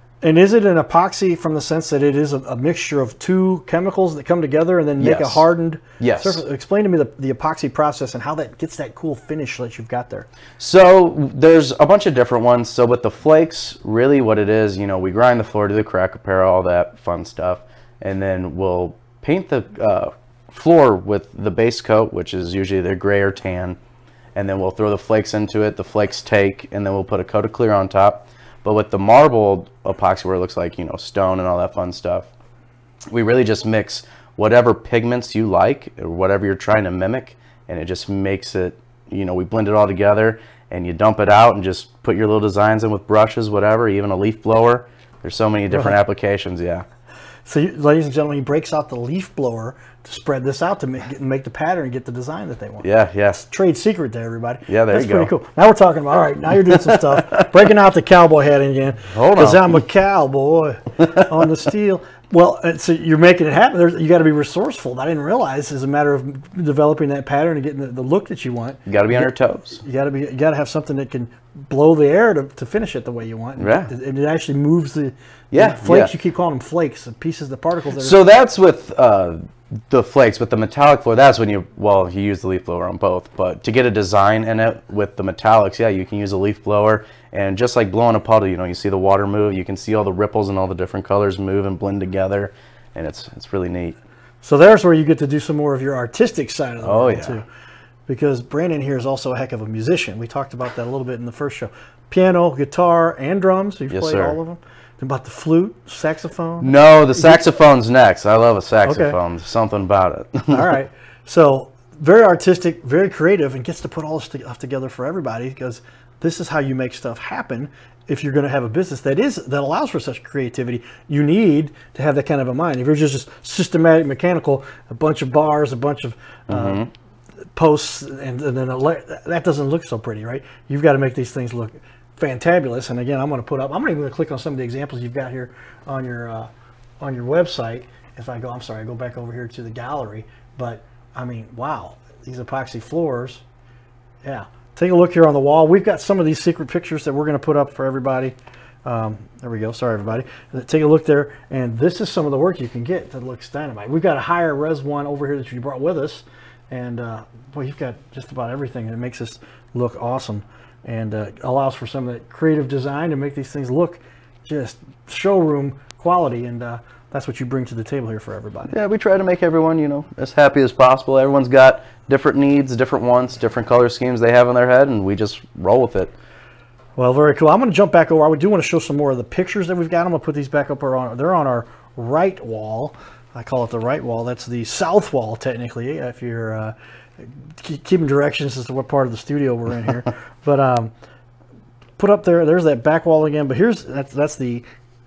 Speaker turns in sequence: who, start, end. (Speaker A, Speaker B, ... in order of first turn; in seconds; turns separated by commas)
Speaker A: 0.2-10.3, Speaker B: 5.0-5.4, Speaker B: 6.0-6.4, Speaker B: 10.6-23.8, Speaker B: 24.4-32.3, Speaker B: 33.1-46.9, Speaker A: 45.7-46.0, Speaker A: 47.5-78.2, Speaker B: 52.8-53.4, Speaker B: 54.7-55.3, Speaker B: 56.7-57.5, Speaker B: 59.1-59.8, Speaker B: 68.9-69.8, Speaker B: 73.6-73.9, Speaker B: 75.5-76.1, Speaker B: 78.0-94.0, Speaker A: 94.4-97.5, Speaker B: 96.8-97.4, Speaker A: 98.1-107.5, Speaker B: 103.9-104.4, Speaker B: 106.6-110.7, Speaker A: 108.9-109.2, Speaker A: 110.5-126.9, Speaker B: 126.5-126.9, Speaker A: 127.5-136.5, Speaker A: 137.0-143.4, Speaker A: 144.2-168.8, Speaker B: 168.7-176.1, Speaker A: 177.0-190.9, Speaker A: 192.0-194.7